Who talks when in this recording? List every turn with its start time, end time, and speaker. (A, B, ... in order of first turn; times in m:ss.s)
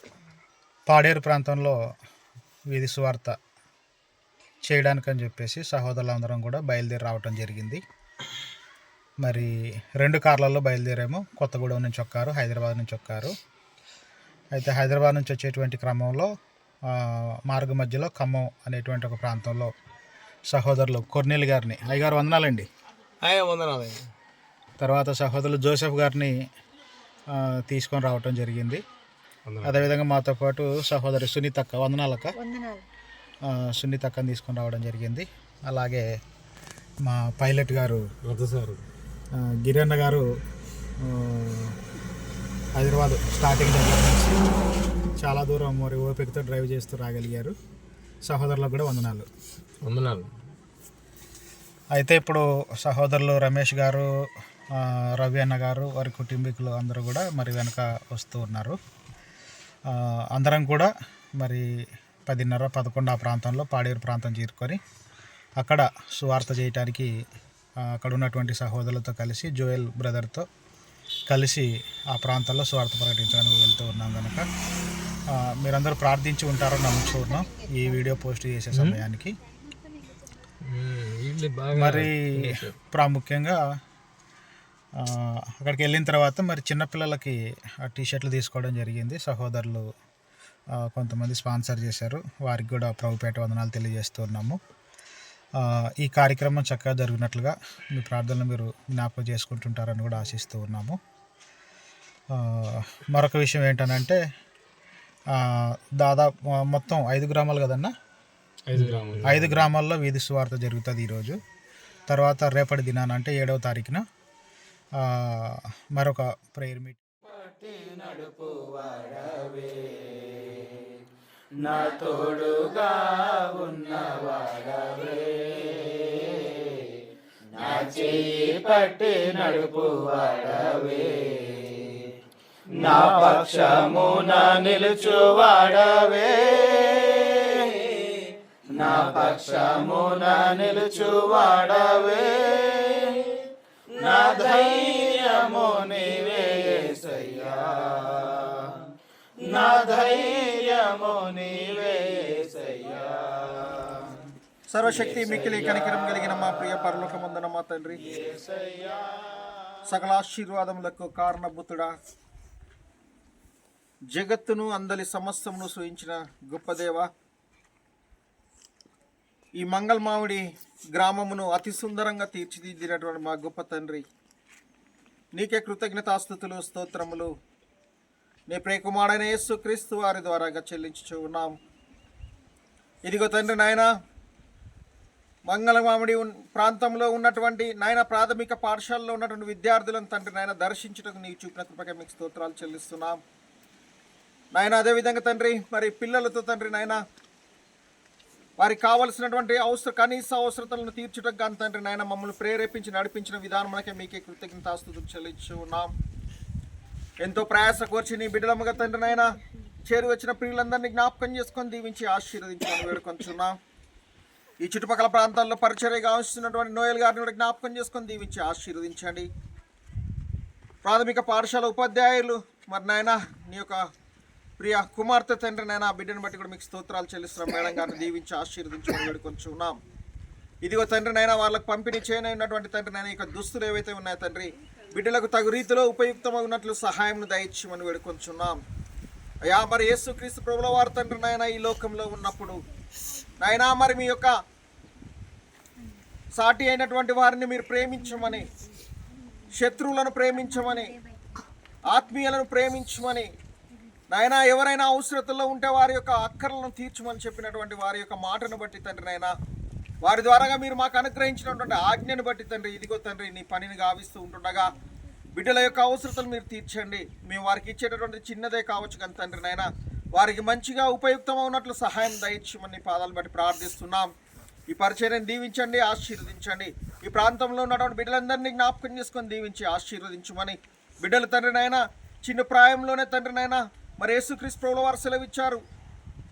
0:00.9-0:01.8 A
0:02.7-0:03.3 A
0:04.6-0:07.8 A
0:09.2-0:13.3 A
0:14.5-0:16.3 A
0:16.9-0:19.7 A
0:20.5-0:22.6 A
0:23.3-0:24.0 B
0:24.8-0:26.3 A
0:27.3-0:28.8 A
0:29.6-0:32.4 A
0:33.5-0:36.0 A
0:37.0-0:38.0 A
0:38.2-0:38.8 B
0:39.3-0:40.2 A
0:41.0-0:41.7 A
0:42.8-0:44.4 A
0:45.2-0:47.5 A
0:48.2-0:49.2 A
0:49.8-0:50.3 B
0:51.9-0:54.1 A
0:54.8-0:58.8 A
0:59.9-1:01.6 A
1:02.3-1:04.8 A
1:05.6-1:07.1 A
1:07.8-1:10.4 A
1:11.3-1:14.5 A
1:15.3-1:19.4 A
1:20.7-1:22.4 B
1:21.7-1:23.6 A
1:25.0-1:29.8 A
1:30.8-1:34.6 A
1:35.6-1:41.0 A
1:42.3-1:44.2 A
1:45.4-1:47.9 A
1:48.7-1:49.6 B
1:49.2-1:51.4 A
1:52.1-1:54.0 A
1:55.0-1:57.0 A
1:57.2-2:01.0 C
2:01.6-2:06.9 C
2:07.5-2:12.1 C
2:12.8-2:18.2 C
2:18.7-2:28.8 C
2:29.4-2:34.2 C
2:34.7-2:38.0 D
2:34.9-2:36.9 C
2:38.1-2:39.8 C
2:39.9-2:41.9 D
2:44.1-2:47.1 D
2:49.6-2:50.4 D
2:50.9-2:54.0 D
2:55.3-2:57.3 D
2:58.5-3:01.5 D
3:03.0-3:03.9 D
3:05.4-3:13.2 D
3:14.5-3:17.0 D
3:18.6-3:25.9 D
3:27.2-3:29.2 D
3:29.8-3:33.6 D
3:34.6-3:39.3 D
3:40.8-3:43.8 D
3:44.6-3:49.8 D
3:50.6-3:58.6 D
3:59.4-4:02.6 D
4:03.4-4:04.3 D
4:06.3-4:08.5 D
4:09.6-4:10.9 D
4:11.9-4:13.3 D
4:14.1-4:19.3 D
4:20.0-4:24.7 D
4:25.3-4:34.1 D
4:34.7-4:45.6 D